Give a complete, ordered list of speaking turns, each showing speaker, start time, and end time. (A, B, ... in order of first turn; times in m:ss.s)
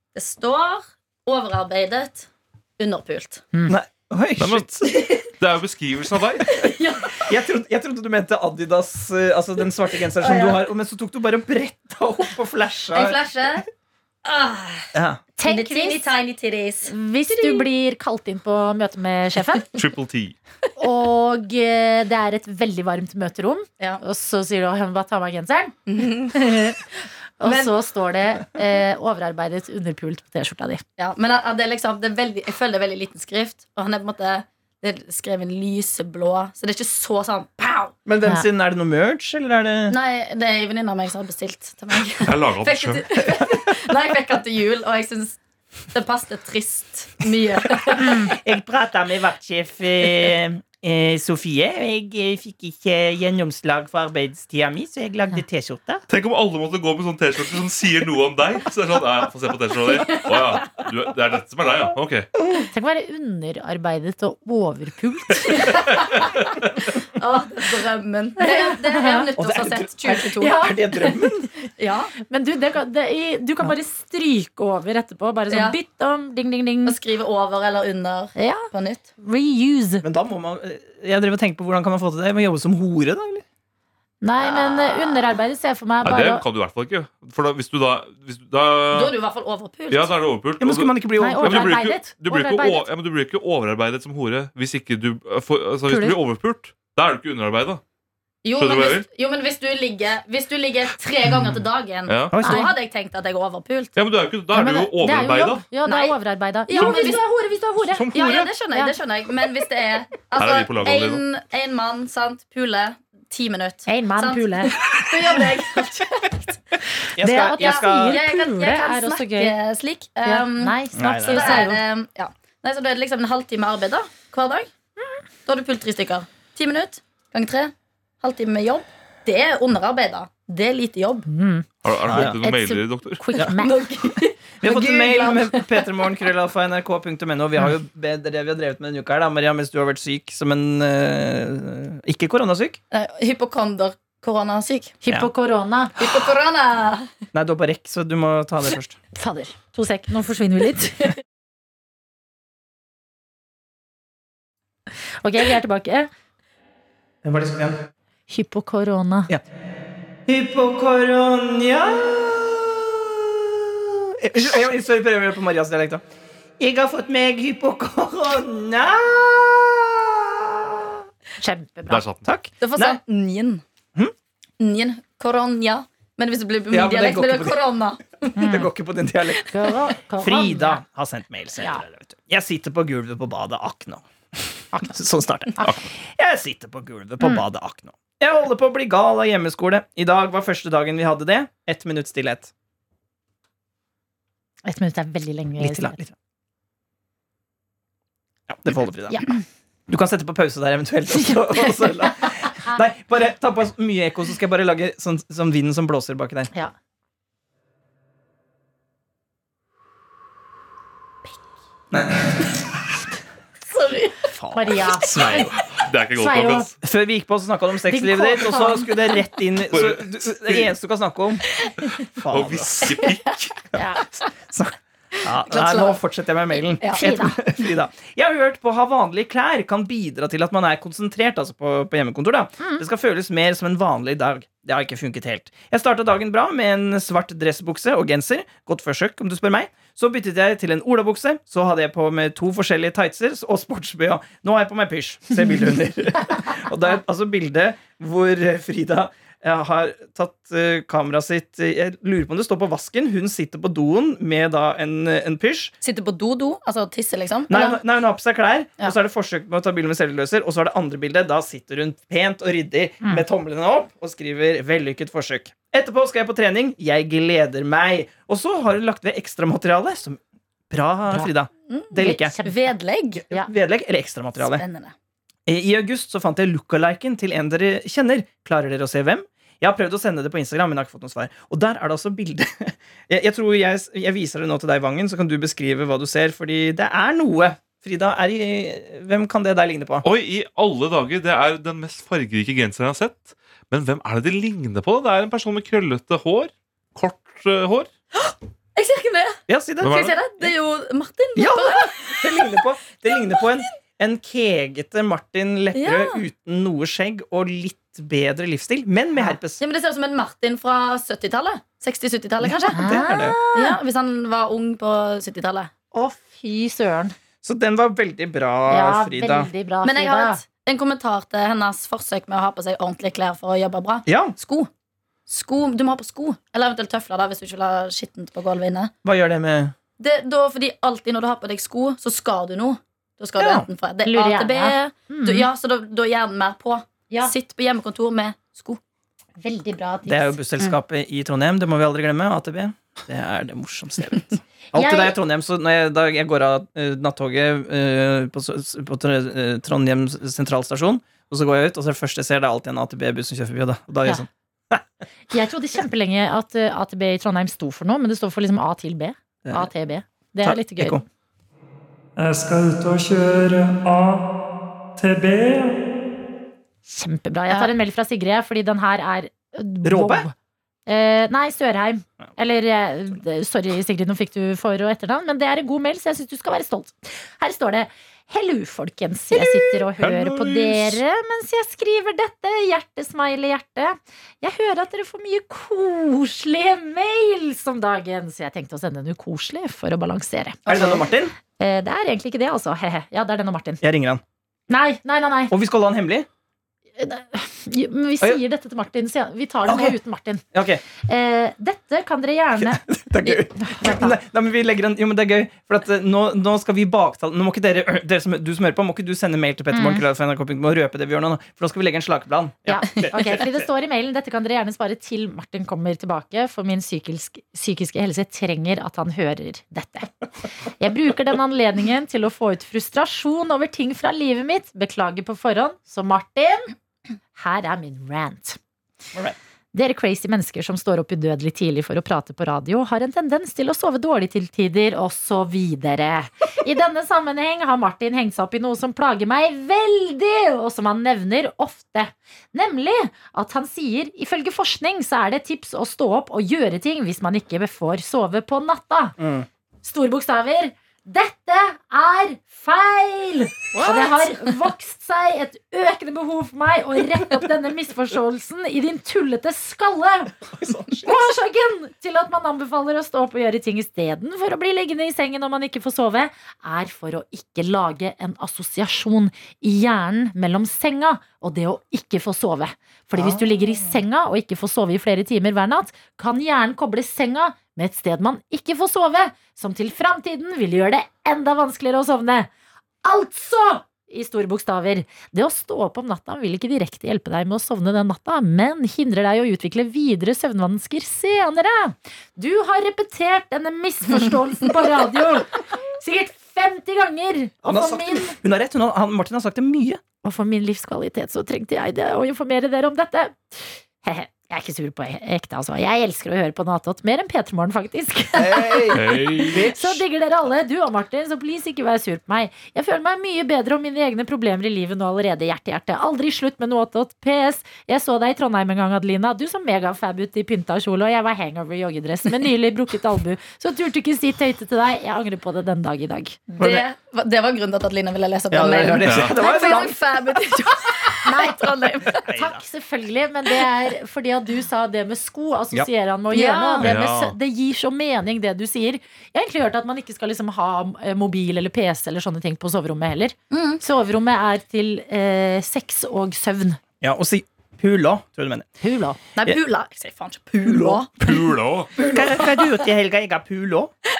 0:00.1-0:02.3 A
0:02.8-0:03.4 A
0:03.7-0:04.9 B
0:04.4-0:04.7 C
0:04.9-0:05.2 A
0:05.4-0:06.5 C
0:06.4-0:07.2 A
0:07.2-0:13.2 B
0:10.2-0:10.6 A
0:12.9-0:13.6 A
0:14.2-0:14.9 A
0:14.9-0:15.2 B
0:15.4-0:16.1 D
0:15.4-0:17.7 A
0:16.8-0:19.8 D
0:19.7-0:20.4 C
0:20.8-0:26.8 D
0:25.9-0:26.4 A
0:27.4-0:30.8 D
0:27.4-0:27.7 A
0:31.0-0:37.9 A
0:38.0-0:40.0 B
0:39.9-0:45.4 A
0:42.3-0:43.1 C
0:45.9-0:48.2 A
0:48.0-0:56.0 B
0:48.0-0:48.3 D
0:56.1-1:02.3 C
1:02.4-1:02.7 B
1:02.7-1:05.8 D
1:05.5-1:06.1 A
1:07.2-1:10.6 A
1:08.4-1:09.3 D
1:09.4-1:11.5 B
1:10.1-1:11.5 D
1:11.8-1:12.1 A
1:12.2-1:17.0 D
1:15.5-1:15.8 A
1:16.8-1:19.0 A
1:18.3-1:18.7 D
1:19.2-1:20.0 D
1:20.0-1:23.4 B
1:24.2-1:26.4 D
1:24.4-1:25.2 A
1:26.0-1:29.1 C
1:28.9-1:30.1 A
1:29.9-1:37.8 C
1:30.6-1:31.8 B
1:31.2-1:32.9 D
1:35.9-1:36.2 D
1:38.4-1:44.0 A
1:38.5-1:39.1 C
1:42.1-1:42.4 C
1:42.3-1:42.7 B
1:42.4-1:42.7 D
1:44.0-1:45.6 C
1:44.5-1:48.0 D
1:45.8-1:47.2 A
1:46.8-1:47.1 C
1:47.9-1:48.5 C
1:48.1-1:56.6 A
1:50.4-1:51.2 C
1:53.9-1:54.8 D
1:57.1-1:58.2 B
1:57.1-1:59.5 D
1:57.6-2:04.7 A
2:00.2-2:01.8 D
2:01.0-2:01.6 B
2:05.4-2:11.3 A
2:11.3-2:13.9 D
2:11.8-2:13.3 C
2:12.1-2:12.3 B
2:13.4-2:15.6 A
2:14.6-2:22.8 B
2:14.7-2:15.4 D
2:22.9-2:25.0 A
2:25.0-2:26.0 D
2:26.0-2:27.1 A
2:27.3-2:29.0 B
2:29.1-2:31.2 D
2:35.2-2:36.1 D
2:37.2-2:37.8 B
2:38.3-2:39.3 D
2:40.3-2:46.0 B
2:46.6-2:51.0 B
2:51.4-2:52.0 D
2:51.9-2:52.3 C
2:52.2-2:53.0 B
2:52.6-2:53.6 A
2:54.6-2:58.3 A
2:56.7-2:57.6 B
2:58.2-3:12.5 B
2:58.4-2:58.7 D
2:59.5-3:00.8 D
3:04.7-3:05.0 D
3:05.6-3:05.9 D
3:14.6-3:16.0 D
3:15.6-3:16.1 B
3:18.5-3:19.3 B
3:19.1-3:19.4 D
3:19.9-3:26.5 B
3:21.2-3:22.1 D
3:31.9-3:32.5 B
3:33.7-3:34.3 A
3:34.3-3:35.4 B
3:34.5-3:35.5 D
3:34.8-3:35.4 A
3:35.1-3:36.7 C
3:36.2-3:36.7 D
3:36.8-3:41.5 B
3:37.9-3:39.2 D
3:39.7-3:40.7 C
3:42.2-3:43.0 B
3:42.3-3:43.6 C
3:43.7-3:44.0 D
3:44.5-4:15.7 B
3:45.3-3:46.0 A
3:46.9-3:47.4 D
4:15.8-4:17.5 A
4:17.5-4:30.2 B
4:30.7-4:32.4 B
4:31.7-4:33.2 A
4:32.0-4:32.7 D
4:33.2-4:34.6 B
4:34.4-4:34.9 A
4:35.5-4:50.0 B
4:50.0-4:57.9 C
4:58.2-5:02.4 A
4:59.5-5:00.1 B
4:59.8-5:00.1 C
5:01.4-5:09.6 B
5:03.2-5:03.4 A
5:05.7-5:06.2 A
5:09.6-5:13.0 A
5:12.4-5:13.4 B
5:12.7-5:13.8 D
5:13.5-5:15.7 A
5:15.9-5:17.1 D
5:17.4-5:19.5 B
5:18.7-5:20.4 D
5:19.8-5:24.7 A
5:24.0-5:24.3 B
5:25.3-5:28.9 A
5:29.0-5:29.7 B
5:30.0-5:38.8 A
5:33.4-5:33.7 B
5:34.0-5:35.5 D
5:39.4-5:40.8 D
5:40.0-5:54.8 B
5:44.7-5:45.2 D
5:55.3-6:01.0 D
6:00.4-6:01.0 B
6:02.2-6:04.2 E
6:05.0-6:05.6 E
6:06.8-6:10.3 D
6:09.8-6:10.3 B
6:10.8-6:31.0 D
6:20.0-6:21.0 C
6:30.6-6:31.3 B
6:31.6-6:33.8 D
6:33.8-6:34.2 B
6:34.7-6:35.5 D
6:35.5-6:36.3 B
6:37.0-6:40.4 D
6:39.6-6:40.0 B
6:40.5-6:40.8 B
6:41.0-6:42.8 D
6:42.6-6:53.5 B
6:43.2-6:44.1 A
6:43.6-6:44.1 D
6:49.7-6:50.0 D
6:52.6-7:06.7 D
7:07.3-7:08.6 D
7:09.7-7:29.2 D
7:29.2-7:29.5 B
7:29.8-7:40.3 D
7:33.7-7:34.2 B
7:40.5-7:41.2 B
7:41.0-8:02.5 D
7:53.1-7:54.0 B
8:03.0-8:18.3 D
8:17.6-8:20.0 B
8:20.2-8:46.4 D
8:28.4-8:30.0 B
8:28.9-8:29.6 C
8:46.5-8:52.2 A
8:46.6-8:46.8 B
8:48.5-8:50.0 B
8:49.0-8:49.4 C
8:51.2-8:51.7 D
8:52.2-8:52.6 B
8:52.3-9:06.8 D
8:56.3-8:57.0 A
8:56.8-8:57.3 C
9:03.5-9:03.8 A
9:07.0-9:08.7 B
9:08.8-9:09.2 D
9:09.4-9:11.3 A
9:10.6-9:11.0 B
9:11.2-9:11.9 C
9:12.0-9:13.9 B
9:12.0-9:12.7 A